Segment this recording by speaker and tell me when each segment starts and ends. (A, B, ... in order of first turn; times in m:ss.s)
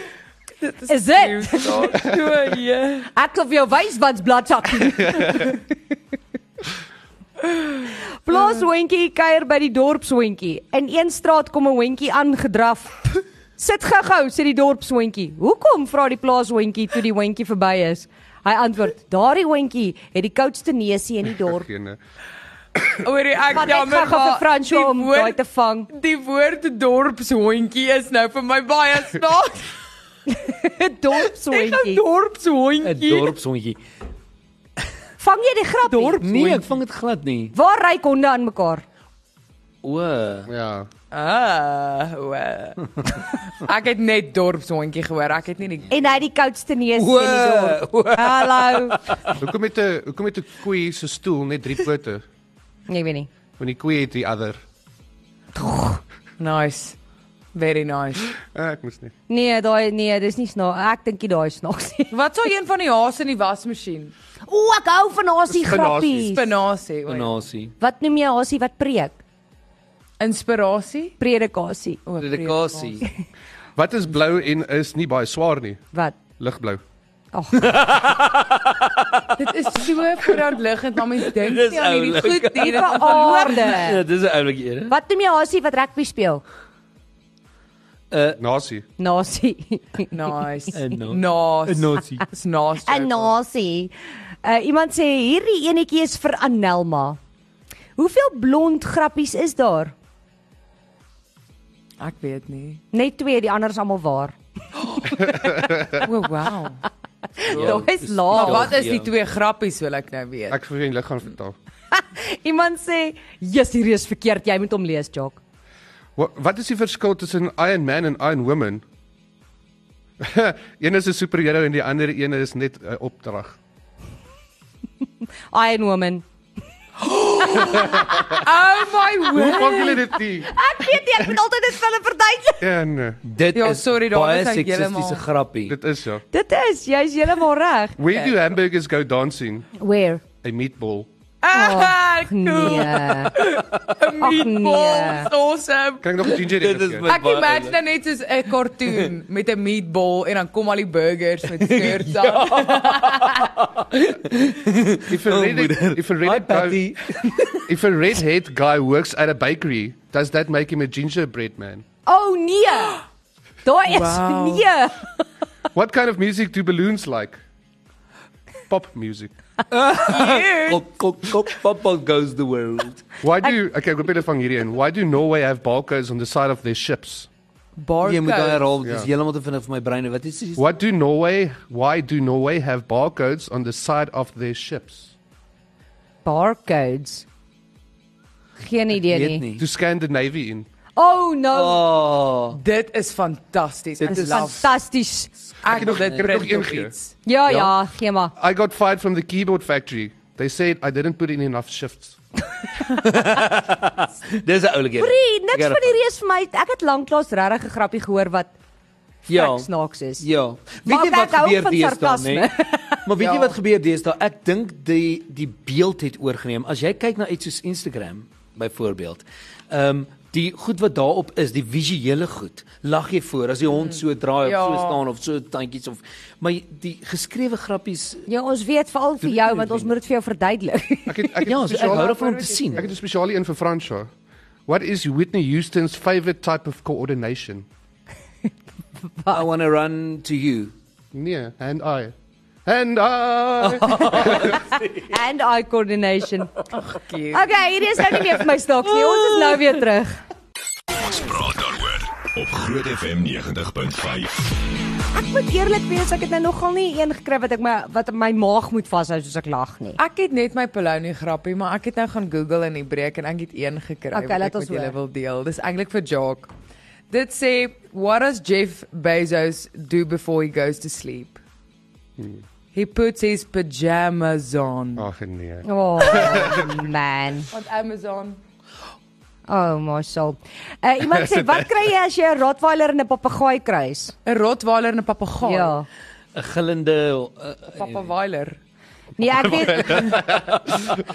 0:00.6-0:03.1 A
0:00.9-0:02.0 B
0:03.1-0:05.6 B
0:08.2-0:21.7 B
0:08.3-0:08.6 A
0:21.4-0:22.0 C
0:23.0-0:25.4 A
0:23.5-0:25.9 B
0:25.9-0:29.7 A
0:30.3-0:32.0 B
0:31.5-0:33.3 A
0:32.8-0:33.8 D
0:35.2-0:36.7 B
0:36.2-0:37.5 D
0:37.5-0:38.8 B
0:39.8-0:40.5 D
0:40.5-0:40.9 C
0:41.1-0:42.8 A
0:43.5-0:46.2 A
0:45.9-0:49.3 B
0:46.9-0:49.1 D
0:49.4-0:52.2 C
0:52.9-0:53.3 B
0:53.6-0:54.6 C
0:55.5-0:56.0 B
0:56.4-0:57.0 A
0:57.5-0:58.3 A
0:58.4-0:59.1 C
0:59.3-1:02.1 B
1:02.1-1:04.1 A
1:04.5-1:06.4 B
1:05.5-1:06.3 C
1:06.2-1:07.4 A
1:07.1-1:07.7 D
1:07.8-1:09.2 B
1:10.2-1:11.2 A
1:11.2-1:12.0 B
1:12.0-1:13.0 A
1:12.2-1:13.1 D
1:13.8-1:15.8 C
1:16.4-1:16.8 C
1:17.3-1:17.7 B
1:17.5-1:19.4 D
1:19.4-1:23.9 A
1:21.3-1:24.9 D
1:22.6-1:24.0 B
1:24.9-1:26.4 B
1:28.1-1:28.4 D
1:28.4-1:28.8 C
1:29.0-1:30.1 B
1:30.1-1:33.3 A
1:30.7-1:32.2 D
1:32.8-1:33.9 B
1:34.4-1:37.2 B
1:38.0-1:39.9 B
1:42.0-1:42.8 A
1:42.9-1:44.4 B
1:45.2-1:46.0 C
1:46.0-1:46.8 A
1:47.4-1:48.7 B
1:47.5-1:49.1 D
1:48.3-1:50.6 A
1:50.5-1:51.5 C
1:51.9-1:55.4 B
1:56.2-1:58.8 C
2:00.2-2:03.6 C
2:05.5-2:06.2 B
2:07.1-2:10.0 A
2:09.3-2:10.5 C
2:09.6-2:12.6 B
2:12.6-2:13.2 C
2:13.2-2:15.8 D
2:13.5-2:15.2 A
2:15.7-2:16.2 C
2:16.3-2:18.0 B
2:18.0-2:19.7 C
2:19.8-2:20.2 B
2:20.4-2:21.1 C
2:21.4-2:26.4 A
2:21.5-2:23.4 B
2:24.2-2:25.3 B
2:26.0-2:27.1 C
2:26.4-2:27.8 D
2:27.0-2:33.5 A
2:31.6-2:37.7 D
2:35.1-2:36.8 C
2:37.6-2:41.8 C
2:42.0-2:43.0 B
2:43.6-2:45.1 B
2:43.9-2:44.6 A
2:45.7-2:47.4 C
2:48.7-2:49.3 C
2:49.7-2:53.1 D
2:49.9-2:50.8 A
2:53.2-2:57.3 C
2:57.8-2:58.7 A
2:58.0-3:00.6 D
2:58.8-2:59.1 C
3:00.6-3:05.1 C
3:06.2-3:07.2 B
3:08.6-3:09.4 B
3:09.1-3:09.6 D
3:09.6-3:10.7 C
3:11.0-3:11.8 B
3:11.5-3:12.6 D
3:12.5-3:14.7 A
3:14.0-3:14.6 D
3:14.0-3:15.3 B
3:15.6-3:16.9 C
3:15.6-3:17.1 A
3:15.7-3:16.4 D
3:17.2-3:18.3 B
3:18.4-3:22.2 C
3:22.9-3:26.0 D
3:25.0-3:28.5 B
3:29.3-3:30.2 B
3:29.3-3:29.7 D
3:30.2-3:32.5 D
3:30.8-3:33.1 B
3:33.0-3:48.2 D
3:33.2-3:33.5 A
3:43.7-3:45.0 A
3:48.3-3:51.4 B
3:49.2-3:49.9 D
3:51.1-3:52.2 C
3:51.4-3:52.9 D
3:51.7-3:52.9 A
3:52.7-3:54.1 C
3:54.7-3:57.6 C
3:59.3-4:00.7 D
4:01.1-4:02.1 C
4:02.6-4:04.6 C
4:03.9-4:05.0 D
4:04.1-4:06.5 B
4:06.7-4:07.6 A
4:07.3-4:10.2 B
4:10.9-4:14.5 E
4:15.1-4:20.0 B
4:20.0-4:26.5 A
4:24.1-4:25.0 B
4:27.1-4:31.4 A
4:32.2-4:32.4 C
4:32.7-4:35.0 A
4:35.0-4:36.9 C
4:35.6-4:37.5 B
4:37.5-4:38.4 A
4:39.5-4:44.1 B
4:41.1-4:41.6 C
4:44.2-4:45.8 A
4:45.4-4:45.8 B
4:46.3-4:48.0 D
4:47.8-4:48.6 A
4:49.2-4:50.4 B
4:49.7-4:50.2 C